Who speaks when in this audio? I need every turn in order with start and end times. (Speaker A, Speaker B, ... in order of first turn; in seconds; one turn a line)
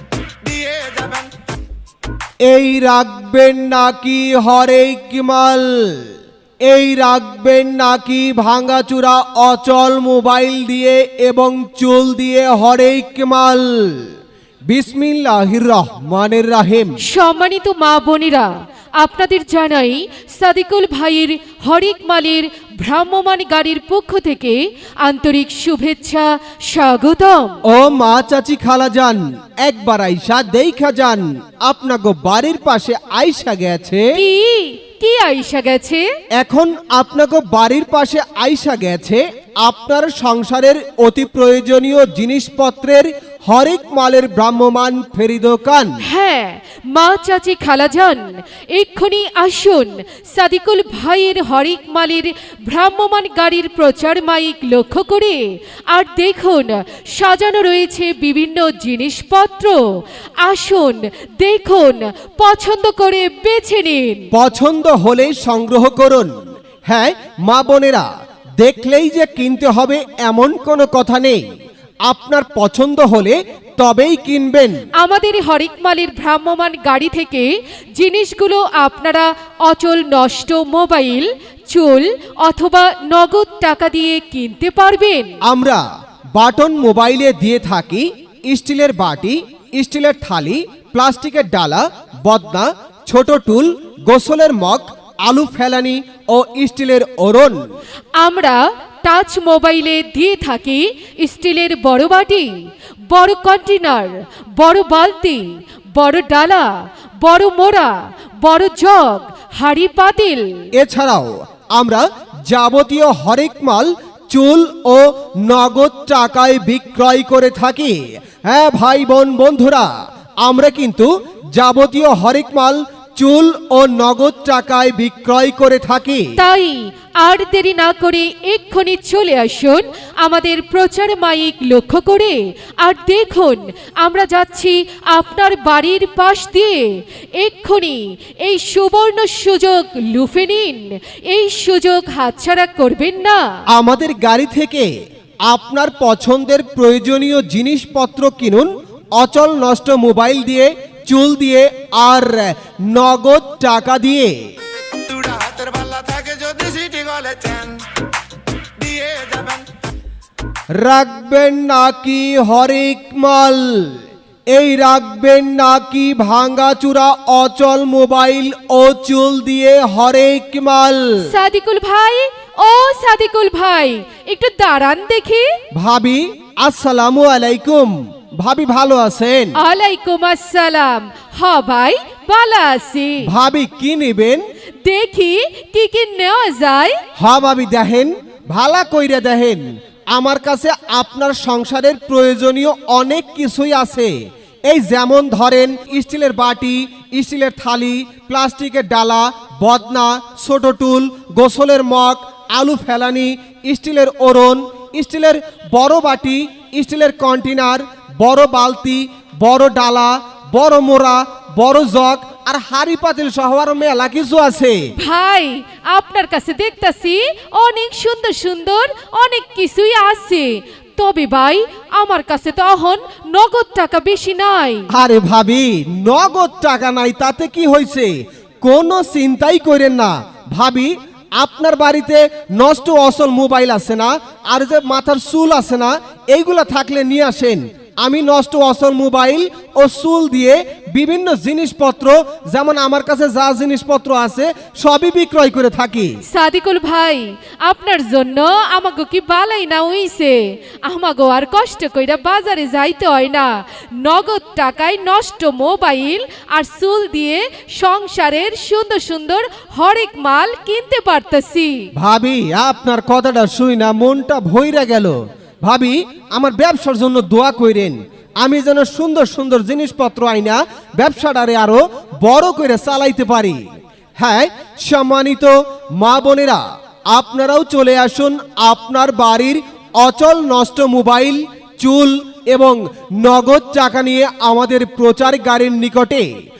Speaker A: 0.4-1.4
Speaker B: 2.4-6.1
Speaker B: 6.6-14.1
Speaker B: 14.7-17.0
Speaker C: 17.0-27.6
Speaker B: 27.7-34.1
Speaker C: 34.1-36.0
Speaker B: 36.4-46.0
Speaker C: 46.0-59.8
Speaker C: 60.4-64.3
Speaker B: 64.3-66.3
Speaker B: 66.9-68.1
Speaker B: 68.6-71.4
Speaker B: 72.0-74.8
Speaker C: 75.0-85.4
Speaker B: 85.5-85.8
Speaker B: 86.3-97.6
Speaker C: 98.2-102.5
Speaker C: 103.1-106.7
Speaker C: 107.2-110.7
Speaker B: 110.8-126.3
Speaker C: 126.4-143.4
Speaker B: 143.7-144.9
Speaker B: 145.4-154.3
Speaker A: 155.0-158.0
Speaker A: 158.6-159.7
Speaker B: 160.8-163.9
Speaker B: 164.5-171.2
Speaker C: 171.2-175.5
Speaker B: 175.7-179.6
Speaker C: 179.5-183.3
Speaker B: 183.2-184.4
Speaker C: 184.8-187.0
Speaker B: 187.2-194.1
Speaker B: 194.7-214.8
Speaker C: 214.9-224.9
Speaker B: 224.9-246.2
Speaker C: 246.3-261.9
Speaker B: 261.9-273.6
Speaker B: 274.2-286.3